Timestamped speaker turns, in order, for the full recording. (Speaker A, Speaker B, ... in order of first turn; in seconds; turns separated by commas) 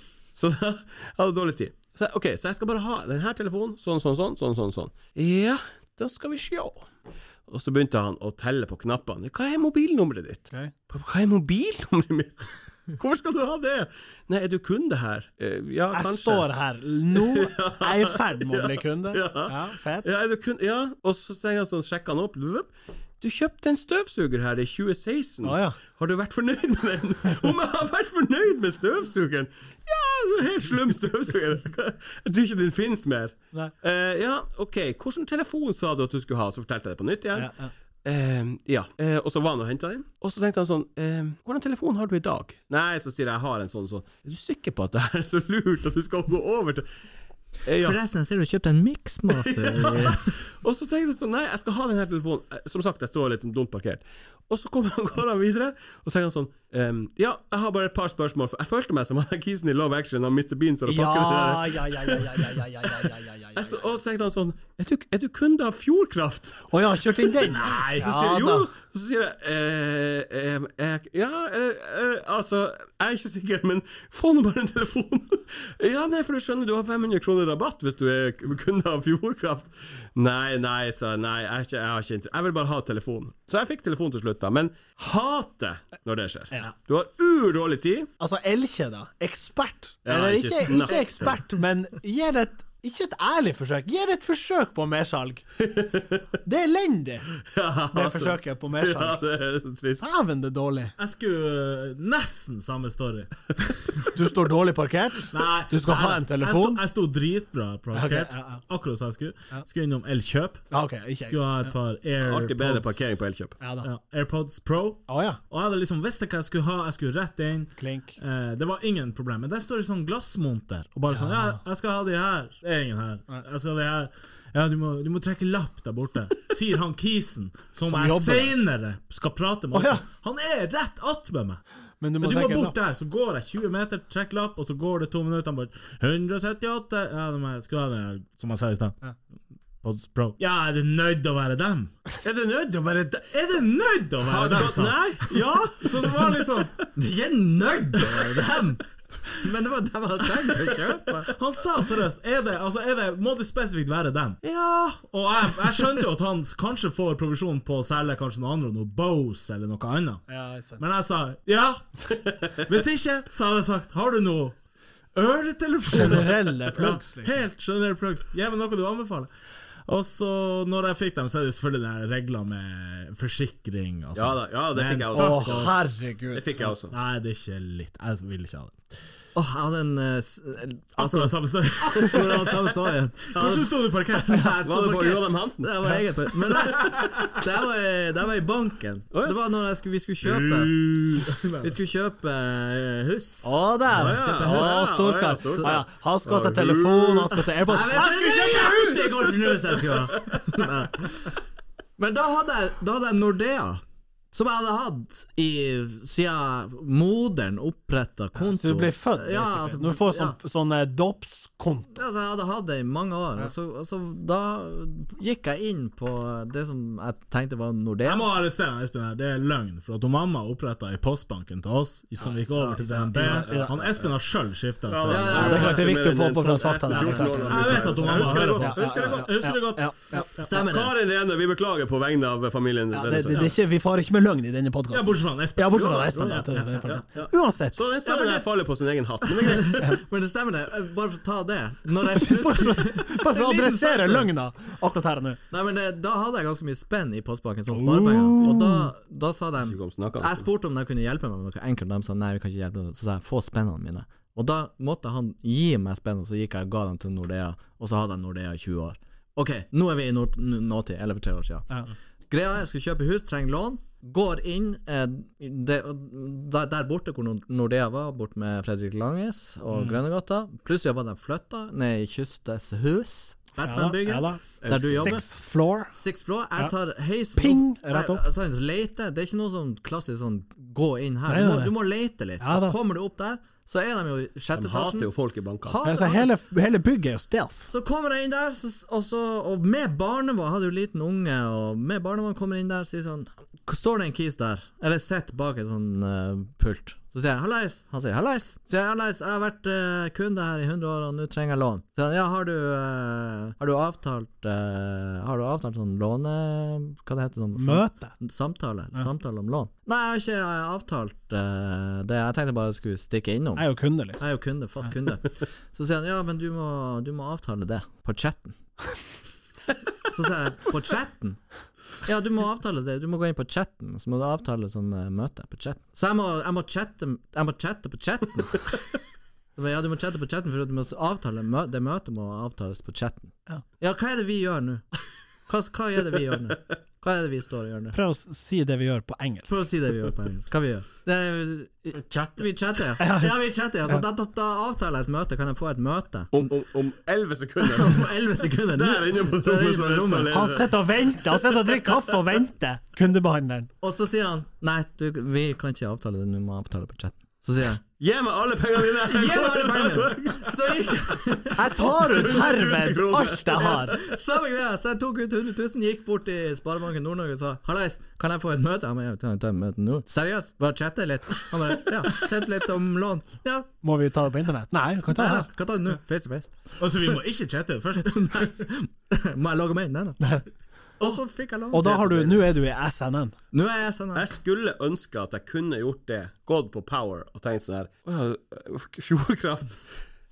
Speaker A: 0.3-6.9, Speaker A: 7.5-16.5, Speaker B: 15.9-20.1, Speaker A: 17.1-37.5, Speaker B: 25.4-25.8, Speaker B: 37.3-37.7, Speaker A: 38.0-46.9, Speaker A: 47.6-48.0, Speaker C: 47.8-50.4, Speaker A: 49.3-88.1, Speaker B: 60.9-63.9, Speaker B: 66.7-68.7, Speaker D: 67.5-68.1, Speaker B: 88.2-95.4, Speaker A: 90.0-91.4, Speaker A: 95.6-96.3, Speaker B: 96.5-97.3, Speaker A: 97.5-100.1, Speaker B: 97.9-99.2, Speaker B: 100.0-100.9, Speaker D: 101.0-104.1, Speaker B: 104.1-106.8, Speaker D: 105.3-110.7, Speaker B: 107.9-108.6, Speaker B: 110.7-111.7, Speaker D: 111.2-131.6, Speaker A: 112.2-113.5, Speaker B: 113.6-113.9, Speaker B: 115.1-115.4, Speaker B: 117.8-118.2, Speaker B: 121.1-121.6, Speaker B: 127.8-128.6, Speaker B: 129.7-130.0, Speaker B: 132.0-132.8, Speaker D: 132.2-139.0, Speaker D: 139.8-141.9, Speaker A: 142.2-143.3, Speaker D: 143.3-146.8, Speaker A: 144.2-146.4, Speaker C: 147.0-148.8, Speaker D: 148.1-148.8, Speaker C: 149.4-151.3, Speaker D: 151.3-160.3, Speaker B: 160.3-160.8, Speaker D: 160.8-164.6, Speaker D: 165.2-169.3, Speaker B: 165.9-167.4, Speaker D: 169.9-175.7, Speaker A: 174.2-175.8, Speaker B: 175.1-176.7, Speaker A: 176.3-176.9, Speaker D: 176.9-178.8, Speaker C: 179.3-183.6, Speaker D: 181.0-182.3, Speaker A: 183.3-183.7, Speaker D: 183.3-184.7, Speaker C: 184.3-190.9, Speaker A: 184.6-186.0, Speaker D: 186.7-187.1, Speaker A: 189.1-189.4, Speaker D: 190.2-191.7, Speaker C: 191.6-195.7, Speaker B: 193.4-199.1, Speaker A: 193.9-197.5, Speaker C: 197.6-201.3, Speaker C: 202.0-210.4, Speaker B: 208.4-212.0, Speaker C: 211.9-218.3, Speaker D: 218.1-225.8, Speaker B: 222.2-223.8, Speaker A: 222.7-224.1, Speaker A: 224.8-229.3, Speaker C: 225.1-226.0, Speaker B: 225.3-230.3, Speaker D: 226.9-230.5, Speaker C: 227.1-227.7, Speaker C: 230.4-231.0, Speaker A: 230.5-233.5, Speaker B: 232.9-237.9, Speaker D: 234.9-237.0, Speaker A: 235.7-240.0, Speaker C: 238.1-238.5, Speaker C: 239.3-244.3, Speaker B: 242.1-245.4, Speaker C: 245.5-275.2, Speaker B: 247.7-248.9, Speaker A: 249.6-250.4, Speaker B: 273.6-275.9, Speaker A: 274.6-275.2, Speaker C: 275.9-285.1, Speaker B: 277.4-278.3, Speaker B: 281.3-281.7, Speaker B: 282.4-282.8, Speaker A: 284.6-285.8, Speaker C: 285.6-286.3, Speaker B: 285.8-287.7, Speaker C: 287.7-313.7, Speaker B: 307.6-308.1, Speaker B: 313.6-314.2, Speaker C: 314.2-318.6, Speaker C: 320.1-321.4, Speaker C: 322.0-328.8, Speaker C: 329.6-334.8, Speaker C: 335.5-338.0, Speaker B: 337.9-339.5, Speaker C: 339.5-346.4, Speaker B: 343.0-343.4, Speaker A: 346.3-348.1, Speaker C: 347.6-350.4, Speaker A: 348.7-351.9, Speaker B: 350.3-353.7, Speaker C: 353.8-357.8, Speaker A: 358.0-360.6, Speaker C: 359.0-361.7, Speaker B: 361.6-364.0, Speaker A: 361.9-364.0, Speaker C: 363.5-373.7, Speaker B: 373.8-375.5, Speaker C: 375.1-377.1, Speaker D: 376.8-378.5, Speaker C: 378.0-380.3, Speaker C: 381.0-382.3, Speaker B: 381.7-383.4, Speaker C: 383.5-384.3, Speaker A: 384.1-389.8